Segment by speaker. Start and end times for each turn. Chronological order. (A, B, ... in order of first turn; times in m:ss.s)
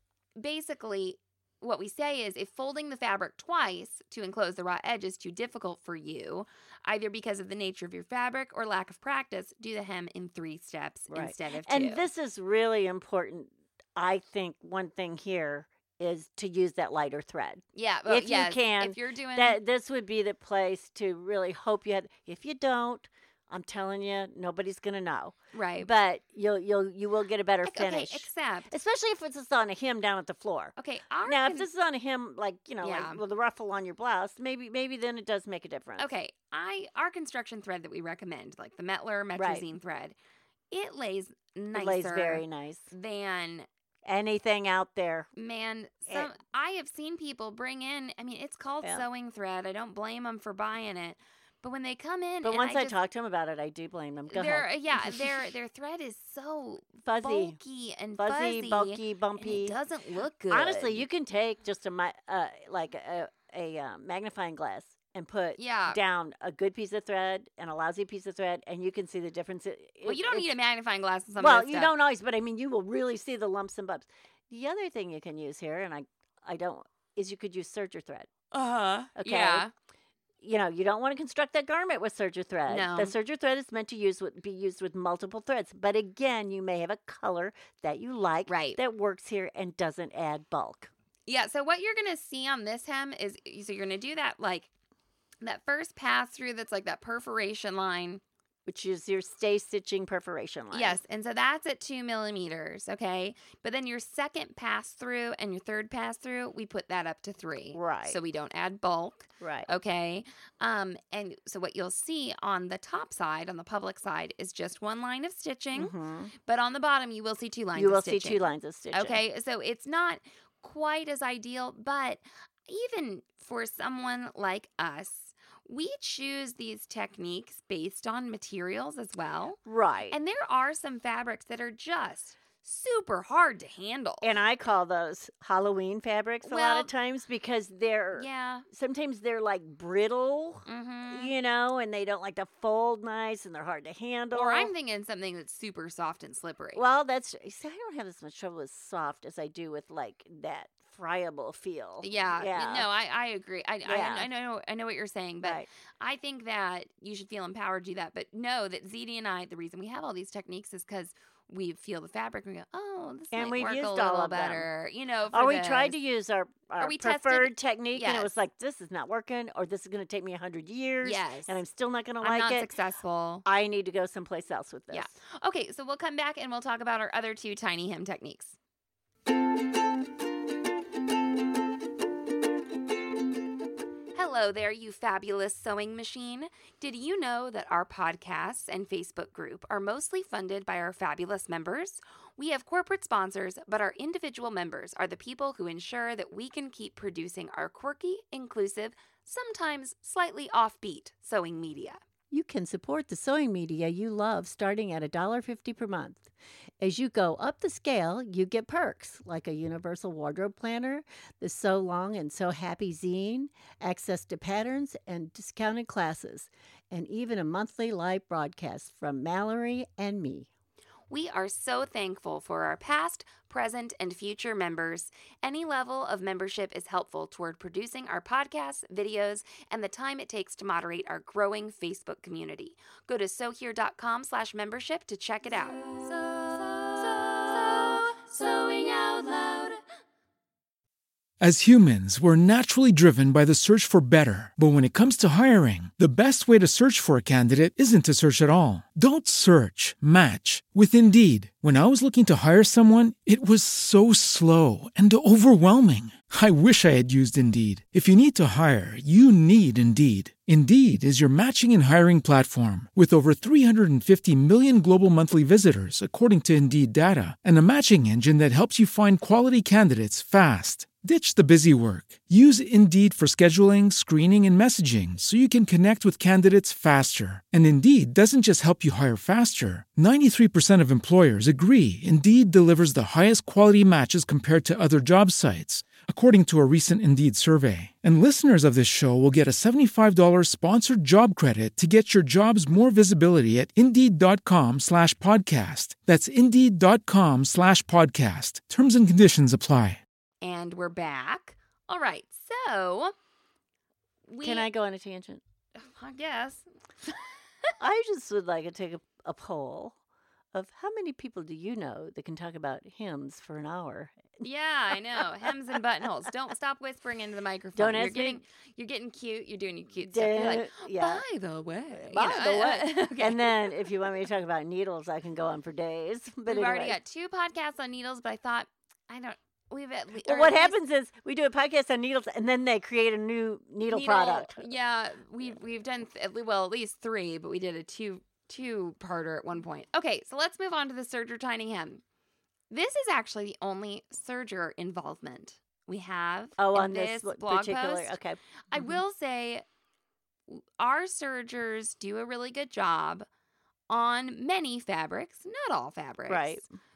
0:00.4-0:12.1 A
0:11.1-0:36.1 B
0:17.7-0:19.6 A
0:25.5-0:25.9 A
0:27.6-0:28.7 A
0:30.8-0:31.7 A
0:32.8-0:33.2 A
0:36.0-0:40.2 A
0:39.4-0:39.6 B
0:40.7-0:43.7 A
0:41.7-0:42.9 B
0:44.0-0:45.3 B
0:45.4-0:53.0 A
0:52.4-0:55.5 B
0:54.3-1:01.1 A
0:57.0-0:57.6 B
0:58.1-0:59.8 B
1:00.5-1:10.5 B
1:05.6-1:06.0 A
1:10.0-1:11.9 A
1:11.4-1:18.3 B
1:18.5-1:19.7 A
1:19.2-1:19.7 B
1:20.4-1:30.9 B
1:22.7-1:23.1 A
1:28.5-1:28.8 A
1:31.3-1:34.7 A
1:35.4-1:38.2 A
1:38.6-1:41.0 B
1:40.7-1:55.9 A
1:47.7-1:48.2 B
1:49.4-1:49.7 B
1:55.7-1:56.3 B
1:56.4-2:09.6 A
1:57.7-1:59.2 B
2:09.6-2:10.2 B
2:10.1-2:14.4 A
2:14.2-2:24.7 B
2:16.4-2:16.9 A
2:18.1-2:18.6 A
2:20.7-2:21.3 A
2:24.3-2:26.8 A
2:26.7-2:32.9 B
2:32.0-2:46.0 A
2:33.8-2:34.3 B
2:43.3-2:44.7 B
2:45.3-2:52.7 B
2:46.8-2:48.3 A
2:51.0-2:51.6 A
2:52.2-2:53.4 A
2:53.4-2:55.1 B
2:54.9-2:58.6 A
3:04.1-3:22.0 A
3:22.3-3:26.3 B
3:26.8-3:40.5 B
3:41.1-3:59.8 A
4:01.4-5:00.0 C
5:00.4-5:03.1 A
5:04.3-5:04.7 A
5:04.4-5:05.4 B
5:05.8-5:06.6 A
5:07.8-5:10.0 B
5:10.5-5:14.4 B
5:14.4-5:23.7 A
5:14.9-5:15.8 B
5:17.8-5:18.4 B
5:20.0-5:21.2 B
5:22.0-5:27.0 B
5:26.5-5:30.8 A
5:30.2-5:34.6 B
5:33.9-5:42.0 A
5:42.7-5:48.2 A
5:46.6-5:49.0 B
5:48.7-5:49.6 A
5:50.5-5:53.2 A
5:53.9-5:56.6 A
5:56.3-5:56.7 B